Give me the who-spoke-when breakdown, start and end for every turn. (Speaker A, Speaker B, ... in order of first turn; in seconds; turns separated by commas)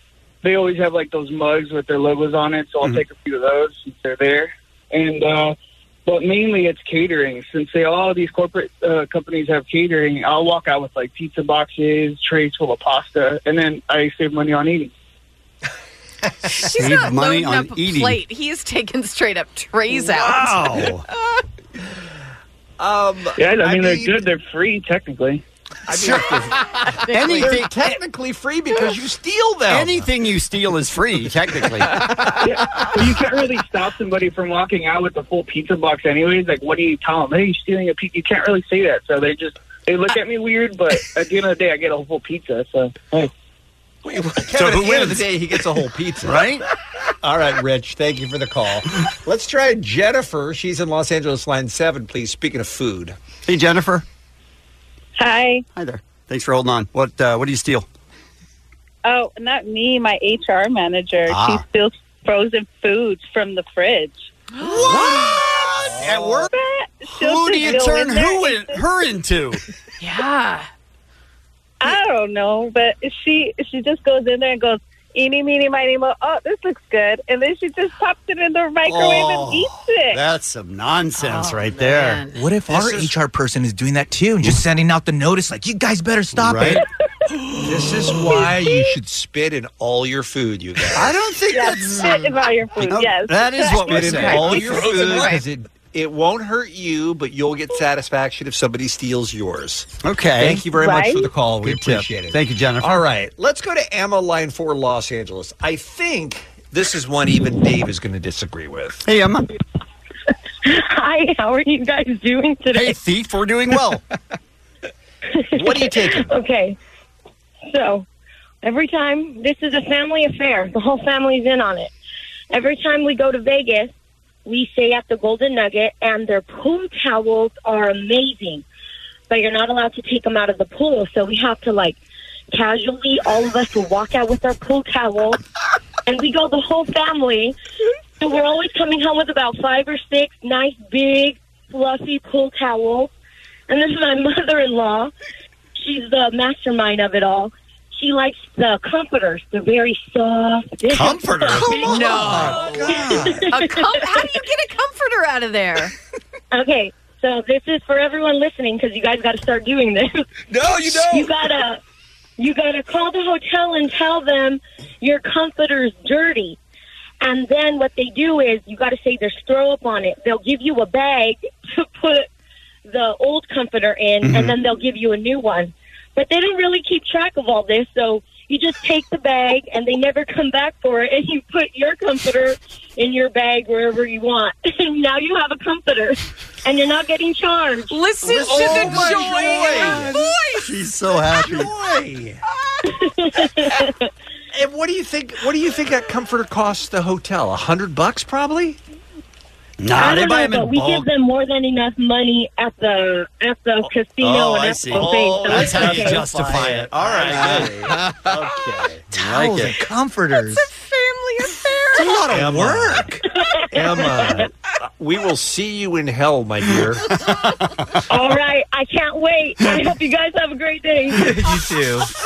Speaker A: 0.4-14.9, Speaker B: 16.5-18.2, Speaker C: 16.6-20.6, Speaker B: 20.1-21.0, Speaker D: 22.8-24.3, Speaker A: 23.4-25.4, Speaker D: 25.9-30.1, Speaker B: 25.9-26.4, Speaker C: 27.1-27.6, Speaker B: 27.1-27.8, Speaker B: 29.7-32.0, Speaker A: 32.5-43.3, Speaker E: 44.1-44.6, Speaker D: 44.4-46.5, Speaker B: 44.6-45.2, Speaker B: 46.2-46.6, Speaker D: 47.2-53.2, Speaker B: 53.5-54.0, Speaker F: 55.2-55.6, Speaker B: 55.7-57.9, Speaker F: 59.0-65.4, Speaker B: 61.3-61.6, Speaker B: 64.6-66.5, Speaker F: 66.0-68.8, Speaker B: 67.0-69.6, Speaker C: 70.0-70.7, Speaker F: 71.8-80.2, Speaker B: 78.8-82.2, Speaker C: 81.2-82.4, Speaker E: 82.3-86.8, Speaker D: 82.7-83.1, Speaker B: 86.3-86.8, Speaker D: 87.6-92.1, Speaker F: 91.5-94.6, Speaker B: 92.8-95.3, Speaker D: 93.7-109.0, Speaker C: 94.1-95.4, Speaker B: 100.0-100.7, Speaker F: 100.8-101.3, Speaker B: 101.6-103.0, Speaker B: 109.0-109.5, Speaker G: 110.6-113.0, Speaker B: 112.7-114.0, Speaker G: 115.5-116.8, Speaker D: 115.5-116.3, Speaker G: 117.7-118.1, Speaker G: 118.6-121.9, Speaker G: 122.5-123.9, Speaker G: 124.5-128.6, Speaker G: 129.3-132.0, Speaker G: 132.5-135.4, Speaker G: 136.1-137.6, Speaker G: 138.2-143.1, Speaker G: 143.7-145.1, Speaker G: 145.8-154.2, Speaker B: 150.9-152.6, Speaker D: 151.5-153.5, Speaker C: 151.8-152.9, Speaker C: 153.5-155.9, Speaker G: 156.5-161.8, Speaker G: 162.4-166.6, Speaker G: 167.2-172.3, Speaker G: 172.9-188.0, Speaker B: 174.2-174.6, Speaker C: 187.9-190.4, Speaker D: 188.3-190.1, Speaker B: 190.6-191.7, Speaker D: 191.3-192.4, Speaker G: 192.9-193.9, Speaker D: 194.5-198.8, Speaker B: 199.8-201.1, Speaker G: 199.9-206.3, Speaker B: 204.2-207.9, Speaker D: 205.0-209.0, Speaker B: 209.1-209.8, Speaker E: 209.1-210.7, Speaker C: 210.5-212.2, Speaker E: 212.0-213.2, Speaker D: 212.2-213.2, Speaker G: 213.2-214.5, Speaker D: 213.7-217.1, Speaker G: 218.1-221.6